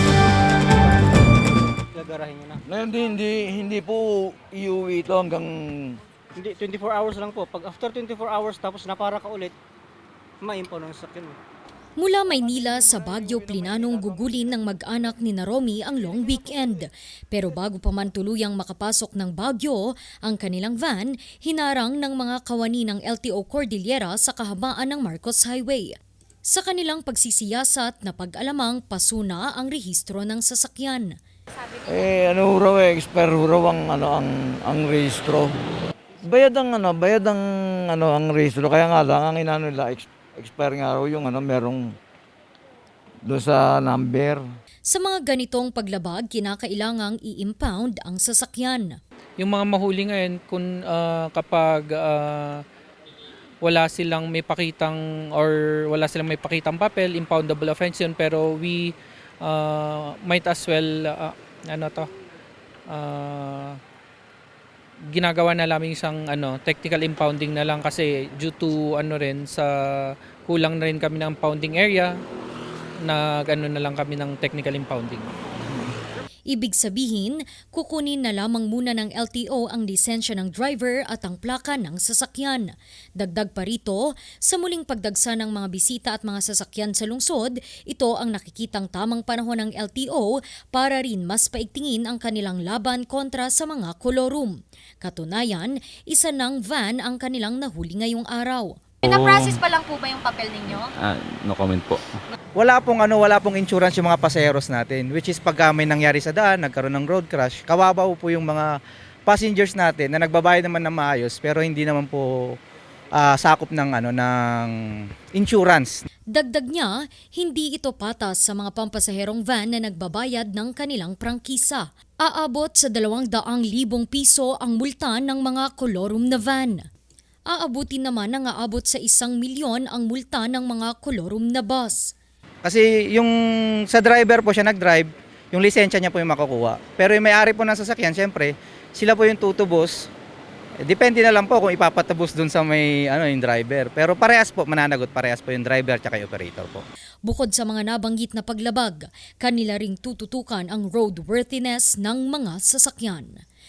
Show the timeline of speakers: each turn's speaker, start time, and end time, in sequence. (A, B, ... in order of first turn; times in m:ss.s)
0:00.4-0:01.2 A
0:01.8-0:02.5 A
0:02.7-0:06.0 B
0:06.4-0:09.5 A
0:10.5-0:11.4 A
0:12.0-0:26.0 C
0:26.5-0:31.2 C
0:31.5-0:32.1 D
0:31.9-0:35.5 B
0:36.2-0:41.9 B
0:43.3-0:44.4 B
0:44.9-0:49.0 C
0:49.4-0:52.6 E
0:53.6-1:02.1 E
1:02.9-1:03.8 E
1:05.1-1:12.1 E
1:13.0-1:15.9 E
1:16.5-1:38.8 C
1:39.0-1:40.9 D
1:39.1-1:39.6 F
1:40.6-1:42.0 F
1:42.6-1:48.8 G
1:49.3-1:52.6 G
1:53.2-1:54.7 G
1:55.3-1:56.0 G
1:56.3-2:06.9 C
2:07.5-2:12.2 C
2:12.6-2:20.1 G
2:20.8-2:26.8 G
2:27.3-2:33.4 C